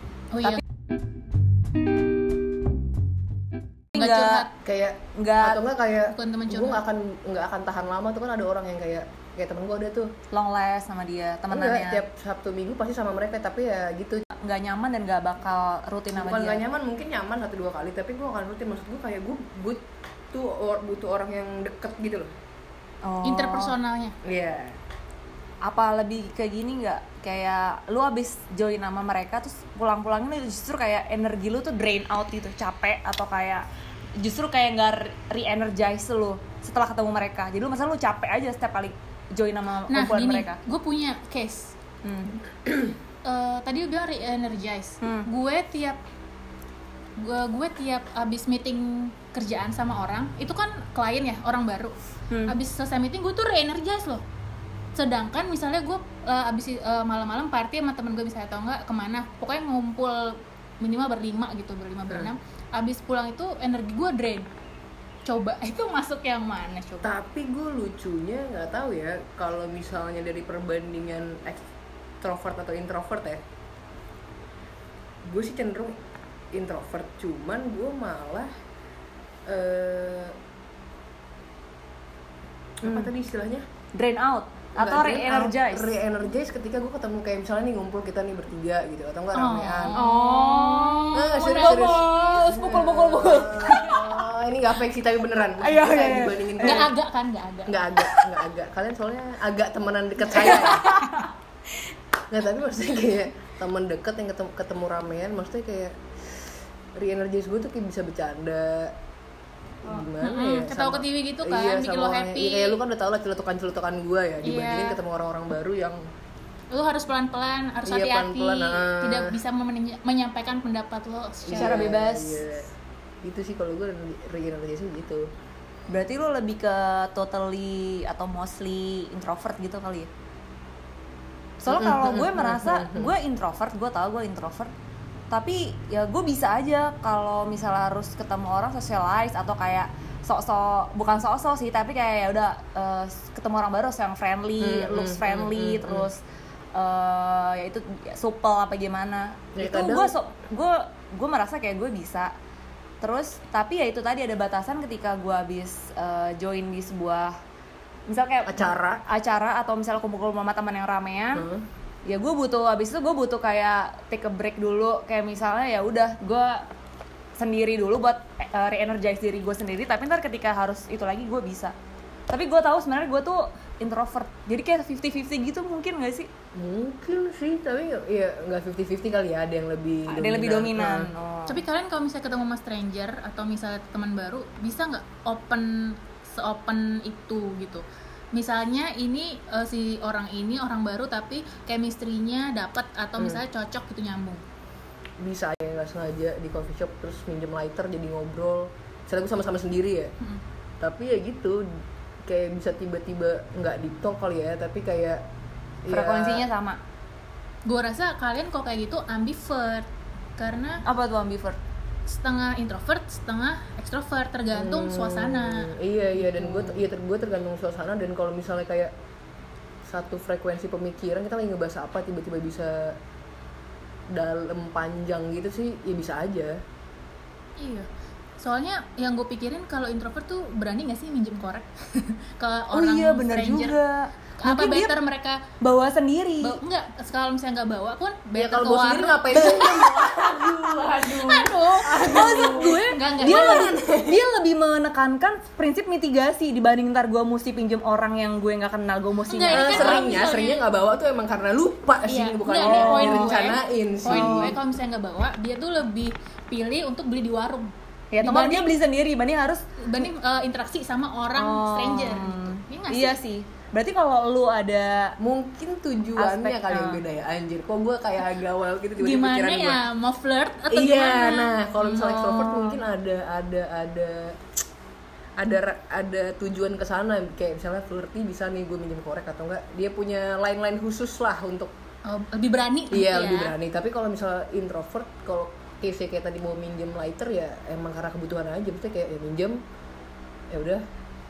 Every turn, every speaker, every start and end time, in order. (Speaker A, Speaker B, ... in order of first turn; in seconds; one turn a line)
Speaker A: 0.3-0.6
Speaker B: 3.9-4.5
Speaker A: 3.9-4.5
Speaker C: 4.6-10.1
Speaker B: 5.2-5.6
Speaker A: 6.0-6.8
Speaker B: 10.3-12.0
Speaker C: 11.5-14.2
Speaker B: 14.4-16.6
Speaker C: 16.1-22.3
Speaker B: 23.0-23.7
Speaker A: 23.2-24.1
Speaker C: 24.2-24.8
Speaker B: 25.6-33.6
Speaker B: 34.2-40.6
Speaker A: 39.9-41.7
Speaker B: 42.0-42.3
Speaker A: 43.2-46.0
Speaker B: 45.0-45.3
Speaker A: 47.2-54.2
Speaker A: 54.9-64.5
Speaker A: 65.2-67.1
Speaker C: 67.0-71.6
Speaker C: 72.2-73.4
Speaker C: 75.2-76.0
Speaker C: 76.5-78.5
Speaker C: 79.5-80.3
Speaker C: 82.8-83.6
Speaker B: 84.0-85.9
Speaker C: 84.8-90.0
Speaker A: 89.3-92.3
Speaker B: 89.9-94.3
Speaker C: 91.1-96.9
Speaker B: 95.6-96.9
Speaker A: 96.6-97.8
Speaker C: 97.7-100.8
Speaker B: 98.0-98.4
Speaker B: 100.3-101.3
Speaker C: 102.3-106.0
Speaker C: 107.0-108.9
Speaker C: 109.8-116.0
Speaker A: 110.2-112.8
Speaker A: 114.4-115.0
Speaker A: 116.7-121.9
Speaker C: 117.8-119.3
Speaker C: 121.4-122.7
Speaker B: 121.5-122.4
Speaker C: 123.2-125.3
Speaker B: 125.9-130.1
Speaker B: 131.6-134.7
Speaker C: 131.7-133.1
Speaker B: 135.3-146.2
Speaker C: 144.6-146.1
Speaker B: 146.7-152.3
Speaker C: 149.6-150.1
Speaker B: 153.0-157.3
Speaker B: 158.1-161.4
Speaker C: 158.5-159.0
Speaker C: 161.3-161.6
Speaker B: 162.1-166.6
Speaker B: 167.4-171.7
Speaker B: 172.3-176.3
Speaker C: 176.5-181.1
Speaker B: 180.1-181.6
Speaker A: 181.5-194.4
Speaker C: 195.2-200.1
Speaker C: 200.8-201.7
Speaker C: 202.2-205.2
Speaker C: 205.8-206.5
Speaker B: 205.9-206.8
Speaker A: 207.7-210.8
Speaker B: 210.8-211.6
Speaker A: 212.1-215.7
Speaker C: 214.5-218.9
Speaker B: 216.3-216.8
Speaker C: 219.8-222.9
Speaker C: 224.1-226.5
Speaker A: 227.6-227.8
Speaker A: 228.4-233.8
Speaker B: 232.7-234.9
Speaker A: 234.4-235.4
Speaker B: 235.6-236.6
Speaker A: 236.4-239.7
Speaker C: 238.4-244.2
Speaker B: 239.3-240.9
Speaker A: 241.1-243.7
Speaker B: 241.8-250.0
Speaker A: 249.3-250.6
Speaker C: 249.5-254.6
Speaker A: 252.1-258.7
Speaker B: 252.6-253.4
Speaker B: 254.0-254.5
Speaker B: 258.1-259.6
Speaker A: 259.8-263.2
Speaker B: 261.3-265.1
Speaker C: 265.2-269.8
Speaker B: 266.2-267.0
Speaker A: 269.0-272.8
Speaker C: 270.7-274.4
Speaker C: 275.4-281.7
Speaker A: 282.1-283.5
Speaker C: 282.9-289.6
Speaker C: 290.5-290.8